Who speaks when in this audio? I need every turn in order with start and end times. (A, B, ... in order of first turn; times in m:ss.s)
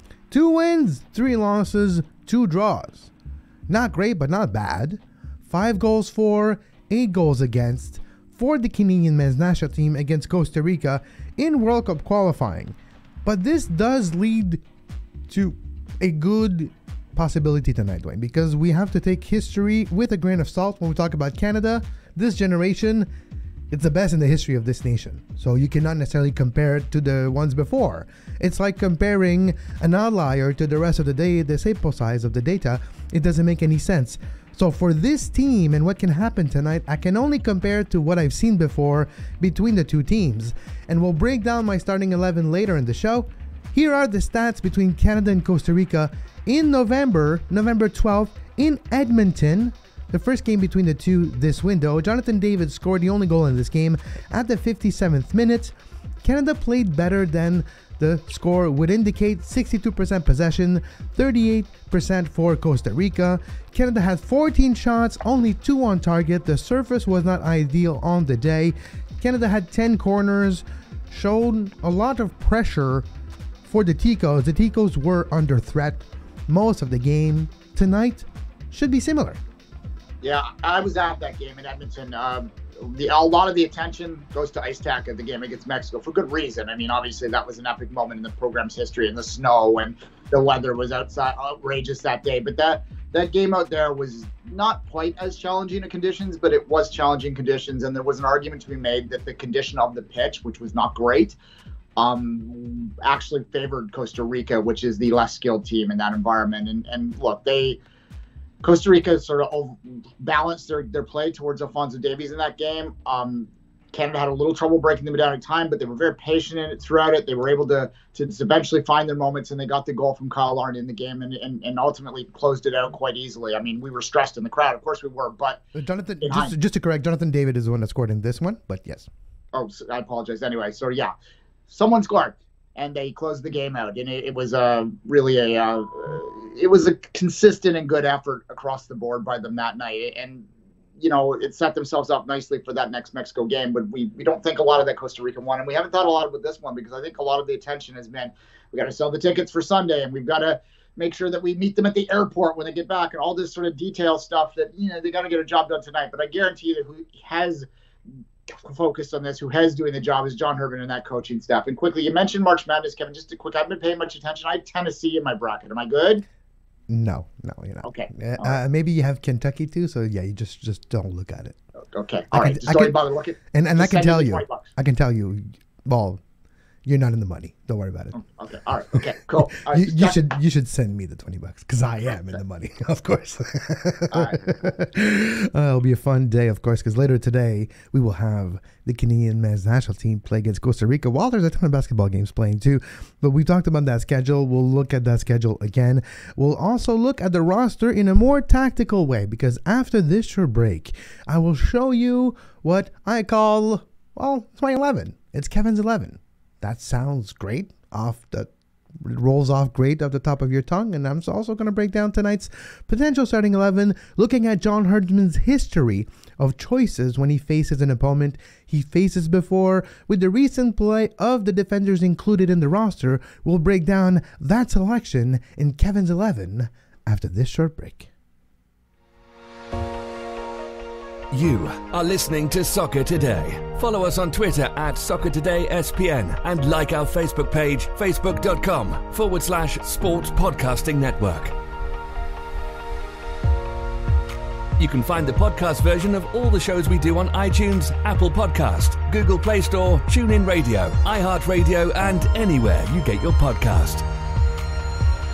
0:00.3-0:03.1 A
0:03.7-0:14.6 A
0:15.3-0:23.1 A
0:23.7-1:13.1 A
1:13.6-1:19.4 A
1:20.2-1:41.4 B
1:42.0-1:47.8 B
1:48.6-2:05.6 B
2:05.7-2:09.1 A
2:06.2-2:06.5 B
2:09.5-2:11.1 B
2:11.7-2:20.4 B
2:21.0-2:37.7 B
2:38.5-2:46.2 B
2:46.9-2:51.6 A
2:47.8-2:48.6 B
2:51.9-2:54.7 B
2:52.3-2:56.2 A
2:56.8-2:58.1 A
2:58.1-3:00.2 B
2:59.6-3:48.1 A
3:04.1-3:04.5 B
3:51.3-4:01.5 C
4:04.8-4:14.0 C